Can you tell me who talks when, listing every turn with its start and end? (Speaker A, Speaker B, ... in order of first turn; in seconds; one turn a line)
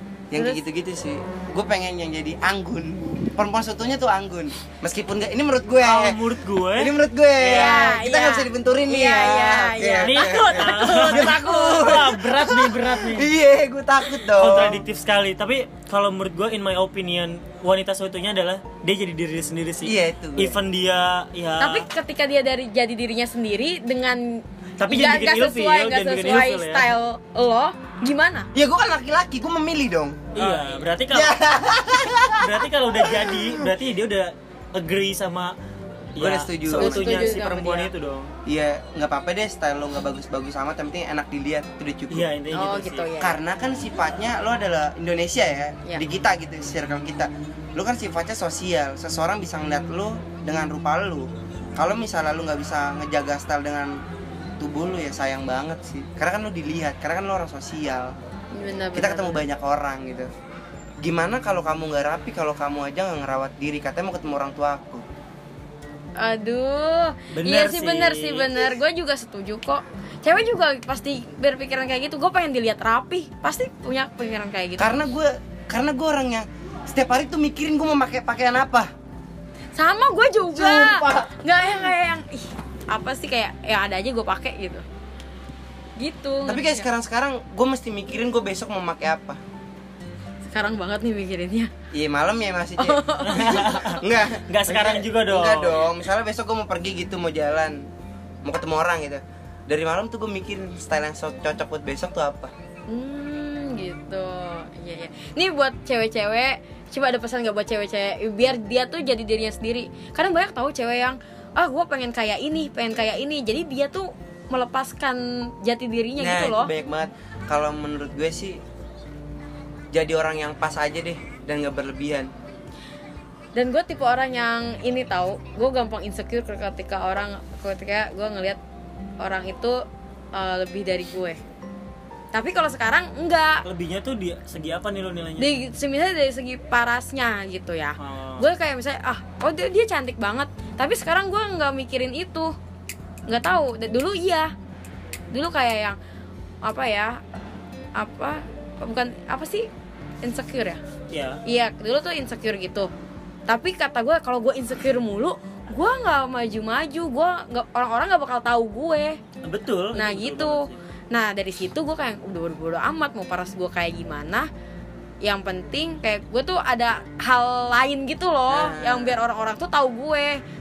Speaker A: 0.3-6.2
Speaker B: 5.8-7.0
Speaker A: 6.7-14.8
Speaker C: 7.4-12.2
Speaker B: 7.5-7.9
Speaker B: 10.0-13.3
Speaker B: 14.2-21.9
Speaker A: 19.8-20.6
Speaker C: 21.6-28.5
Speaker B: 24.8-26.9
Speaker A: 28.5-30.6
Speaker B: 30.3-31.4
Speaker A: 31.1-33.7
Speaker B: 32.2-35.5
Speaker B: 36.1-38.3
Speaker A: 36.2-37.4
Speaker C: 36.7-37.9
Speaker A: 38.5-42.3
Speaker B: 42.1-43.1
Speaker C: 42.5-43.4
Speaker A: 43.2-54.0
Speaker A: 54.6-58.1
Speaker C: 58.5-59.4
Speaker A: 58.9-60.3
Speaker A: 61.0-65.0
Speaker C: 66.2-75.0
Speaker B: 67.3-68.6
Speaker A: 74.8-78.9
Speaker C: 79.8-84.8
Speaker A: 80.5-81.9
Speaker C: 86.0-86.9
Speaker A: 86.4-89.4
Speaker C: 90.5-91.7
Speaker A: 91.9-97.9
Speaker C: 92.8-93.9
Speaker B: 93.2-95.8
Speaker A: 98.4-102.5
Speaker C: 102.9-116.7
Speaker A: 116.2-118.6
Speaker A: 119.9-122.3
Speaker C: 123.5-128.6
Speaker C: 129.2-131.4
Speaker C: 132.3-133.6
Speaker B: 133.6-135.5
Speaker C: 135.4-142.5
Speaker B: 138.0-138.4
Speaker C: 143.3-144.5
Speaker C: 145.3-146.0
Speaker C: 146.6-147.2
Speaker C: 148.0-149.7
Speaker C: 150.2-150.8
Speaker B: 151.1-151.4
Speaker C: 151.4-152.9
Speaker C: 153.5-159.2
Speaker B: 159.4-160.8
Speaker C: 159.9-164.5
Speaker C: 165.2-170.4
Speaker A: 168.5-169.2